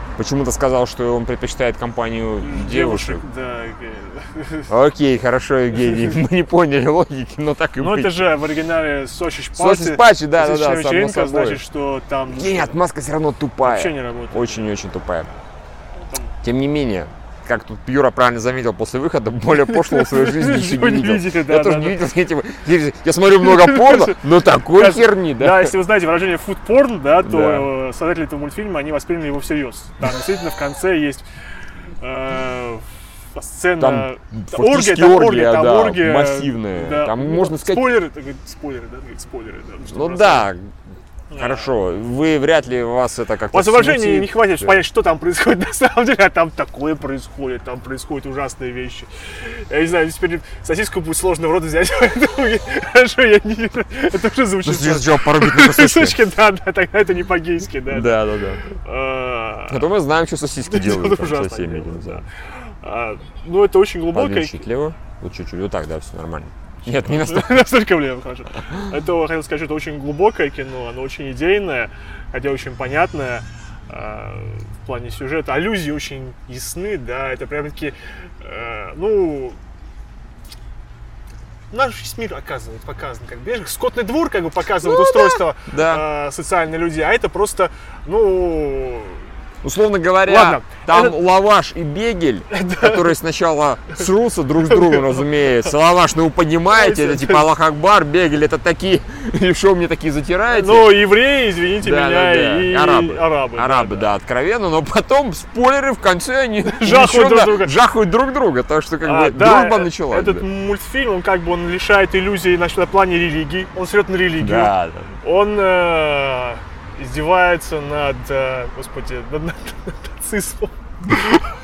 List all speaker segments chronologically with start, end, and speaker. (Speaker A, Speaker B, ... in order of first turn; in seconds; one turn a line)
Speaker A: 0.2-3.2
Speaker B: 2.4-4.7
Speaker A: 4.7-8.2
Speaker B: 7.8-12.8
Speaker A: 9.6-11.6
Speaker A: 12.3-15.3
Speaker B: 13.6-14.7
Speaker B: 16.0-16.3
Speaker A: 16.4-25.7
Speaker B: 19.6-22.0
Speaker B: 23.4-31.2
Speaker A: 27.2-27.7
Speaker B: 32.0-40.5
Speaker A: 33.8-38.0
Speaker A: 39.8-40.7
Speaker B: 41.3-41.7
Speaker A: 41.3-44.8
Speaker B: 43.5-58.2
Speaker A: 54.6-56.2
Speaker A: 57.9-58.6
Speaker B: 58.8-59.9
Speaker A: 59.7-62.2
Speaker B: 60.6-62.2
Speaker B: 62.8-64.6
Speaker A: 64.1-67.7
Speaker B: 66.9-79.6
Speaker B: 81.7-89.2
Speaker A: 84.8-86.0
Speaker A: 89.6-101.0
Speaker B: 90.2-91.2
Speaker B: 92.5-93.1
Speaker B: 94.7-95.2
Speaker B: 96.7-97.5
Speaker B: 100.5-104.1
Speaker A: 101.8-110.4
Speaker B: 106.6-107.8
Speaker B: 109.0-121.4
Speaker A: 114.4-115.1